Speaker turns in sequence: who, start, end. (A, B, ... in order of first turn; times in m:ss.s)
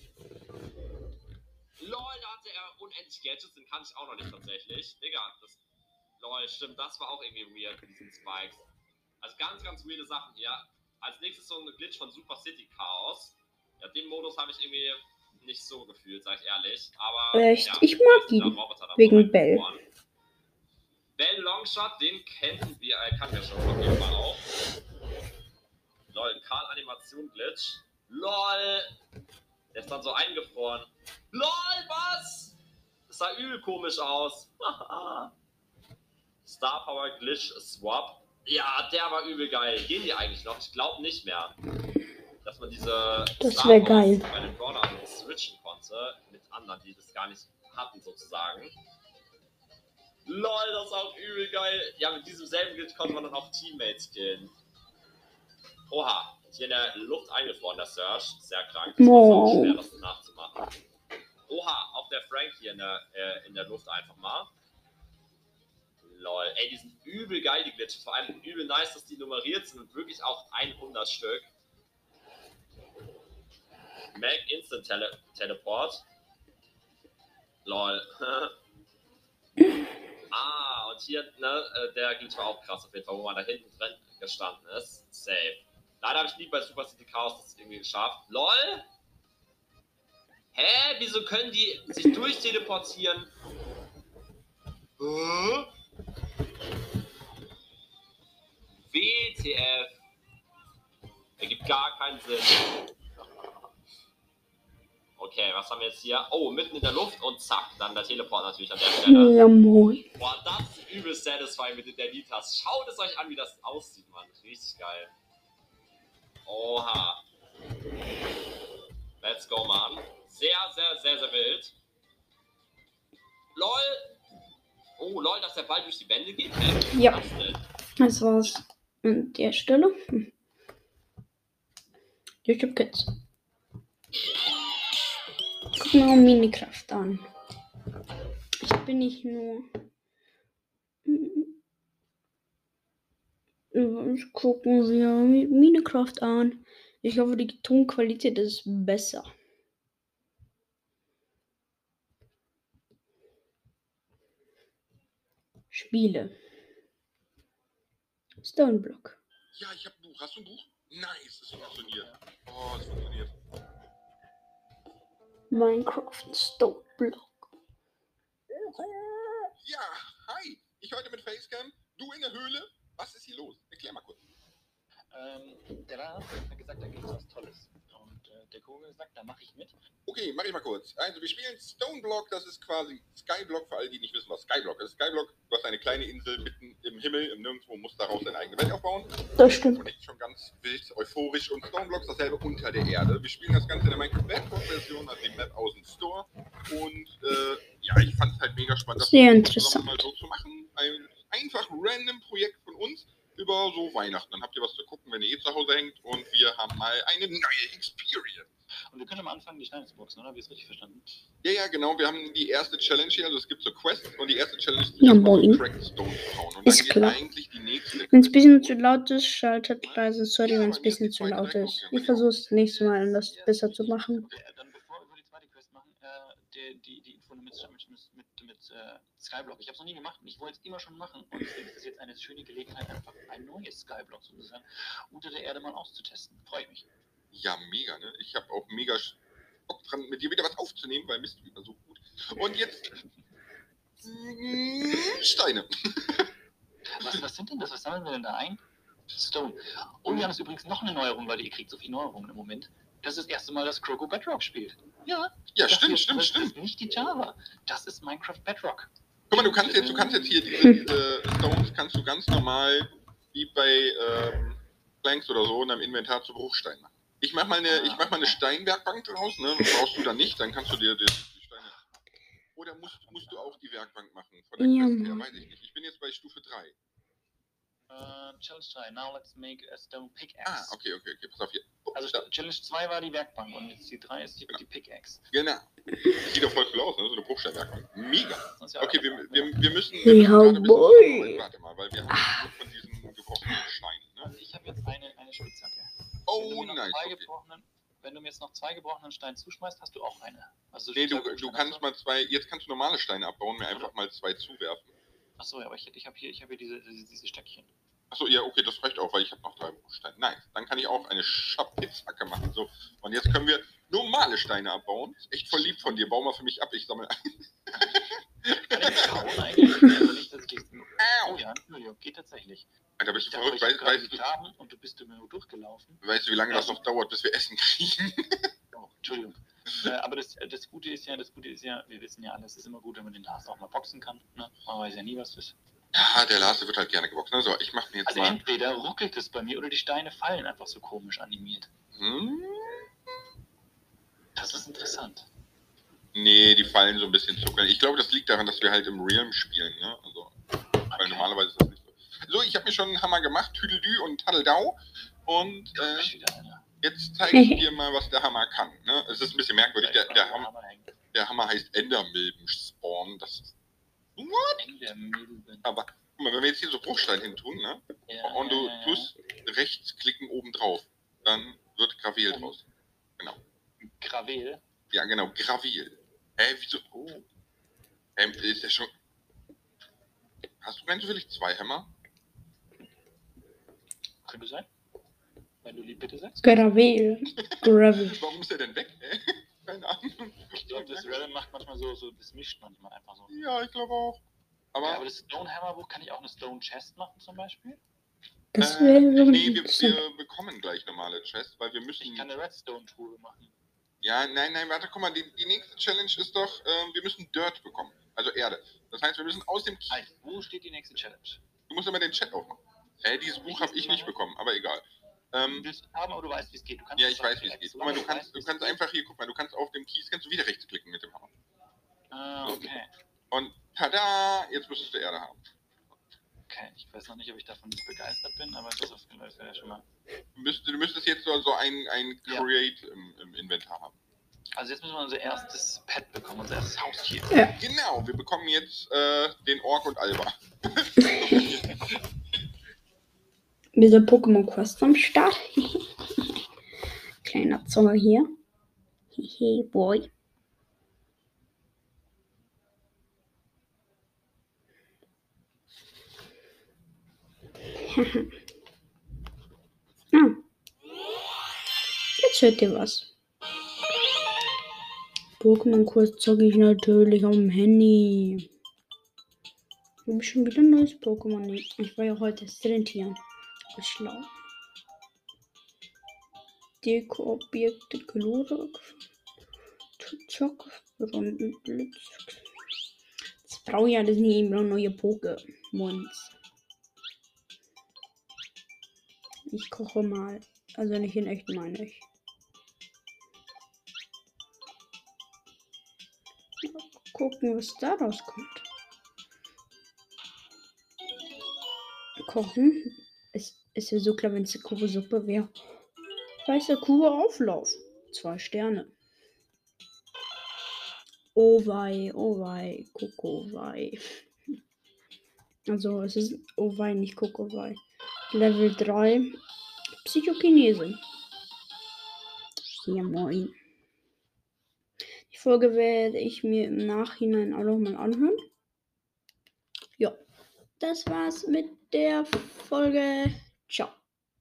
0:01.8-0:05.6 A
0:06.2-0:08.7 A
0:09.2-0:19.8 A
0:17.3-0:19.6 B
0:21.2-0:24.5 A
0:26.1-0:28.9 A
0:29.7-0:32.6 A
0:33.1-0:35.3 A
0:36.4-0:41.6 A
0:42.4-0:48.8 A
0:43.4-0:44.3 B
0:50.3-0:54.6 A
0:55.9-1:00.7 A
0:59.0-0:59.8 B
1:01.5-1:04.5 A
1:06.0-1:11.5 A
1:14.1-1:16.1 A
1:17.6-1:18.6 A
1:20.3-1:28.9 A
1:30.5-1:33.3 A
1:35.0-1:35.7 A
1:38.9-1:40.0 A
1:41.4-1:42.7 A
1:45.2-1:49.4 A
1:49.0-1:50.1 B
1:50.2-1:55.1 A
1:56.5-1:57.2 A
1:59.2-2:01.8 A
2:03.6-2:04.2 A
2:05.0-2:07.6 A
2:06.9-2:07.3 B
2:08.0-2:10.3 B
2:12.5-2:13.1 B
2:15.8-2:17.2 B
2:18.6-2:19.7 B
2:21.1-2:21.5 B
2:23.7-2:29.3 B
2:35.7-2:36.3 B
2:38.4-2:39.2 B
2:39.5-2:43.3 C
2:41.6-2:42.2 D
2:45.5-2:47.5 B
2:49.0-2:49.4 B
2:49.6-2:54.2 C
2:55.1-2:59.8 D
3:00.1-3:28.5 C
3:09.4-3:09.8 B
3:19.0-3:20.1 B
3:28.9-3:31.1 D
3:31.4-3:38.8 C
3:35.0-3:35.6 B
3:36.6-3:37.2 B
3:38.1-3:44.3 B
3:39.8-3:42.3 C
3:42.4-3:56.9 D
3:57.3-4:02.9 C
4:04.0-4:06.3 C
4:07.0-4:08.6 D
4:09.1-4:20.5 D
4:15.5-4:16.5 C
4:19.3-4:31.8 C
4:27.7-4:28.4 D
4:32.6-4:36.8 C
4:32.8-4:33.9 D
4:34.6-4:35.3 B
4:37.9-4:40.8 D
4:40.5-4:42.2 C
4:41.9-4:45.2 D
4:45.3-4:45.7 C
4:46.2-4:54.3 C
4:48.5-4:49.8 D
4:50.0-4:51.4 B
4:52.1-4:52.4 B
4:54.2-5:01.8 D
4:56.3-4:57.3 C
5:01.0-5:04.9 C
5:05.4-5:07.7 D
5:08.1-5:17.9 C
5:15.4-5:16.2 D
5:18.5-5:18.9 C
5:18.6-5:26.8 D
5:21.0-5:21.4 C
5:23.0-5:24.2 C
5:26.0-5:28.5 C
5:28.7-5:35.6 D
5:35.9-5:38.4 C
5:38.1-5:41.7 D
5:42.0-5:42.9 C
5:44.4-5:45.3 D
5:46.1-5:50.3 C
5:50.9-5:51.3 D
5:51.0-5:56.1 C
5:55.7-5:56.6 D
5:56.8-6:00.5 C
5:57.3-5:57.6 B
5:59.6-6:01.0 D
6:01.1-6:03.5 C
6:04.2-6:04.6 C
6:04.6-6:05.7 D
6:05.6-6:12.6 C
6:08.1-6:09.1 D
6:12.3-6:12.6 D
6:13.8-6:14.6 D
6:14.9-6:16.8 C
6:16.9-6:17.2 D
6:18.2-6:18.9 C
6:20.6-6:21.9 C
6:24.2-6:24.7 D
6:25.6-6:26.7 D
6:26.4-6:28.2 B
6:27.4-6:31.2 C
6:30.6-6:33.3 D
6:33.3-6:34.2 C
6:34.7-6:35.0 C
6:34.9-6:37.8 D
6:38.5-6:40.0 B
6:38.6-6:42.3 C
6:42.0-6:43.5 D
6:44.0-6:50.0 C
6:49.9-6:51.4 D
6:51.7-6:55.7 C
6:53.4-6:54.2 D
6:55.5-6:58.8 D
6:57.0-7:01.3 C
7:02.1-7:02.9 D
7:03.3-7:05.4 C
7:06.5-7:09.8 D
7:10.4-7:14.0 C
7:14.6-7:17.4 D
7:17.6-7:21.8 C
7:23.8-7:25.8 B
7:27.2-7:28.3 B
7:29.2-7:30.1 B
7:37.9-7:38.3 B
7:42.2-7:43.1 B
7:45.4-7:48.4 B
7:50.1-7:53.2 B
7:53.8-7:54.3 B
7:56.8-7:58.9 B
8:00.0-8:02.4 B
8:03.4-8:06.3 B
8:09.5-8:12.0 B
8:16.6-8:18.6 B
8:22.2-8:25.5 B
8:26.4-8:28.9 B
8:31.3-8:34.0 B
8:35.7-8:37.8 B
8:38.3-8:39.3 B
8:40.0-8:41.0 B
8:42.8-8:43.6 B
8:45.3-8:48.4 B
8:50.8-8:54.0 B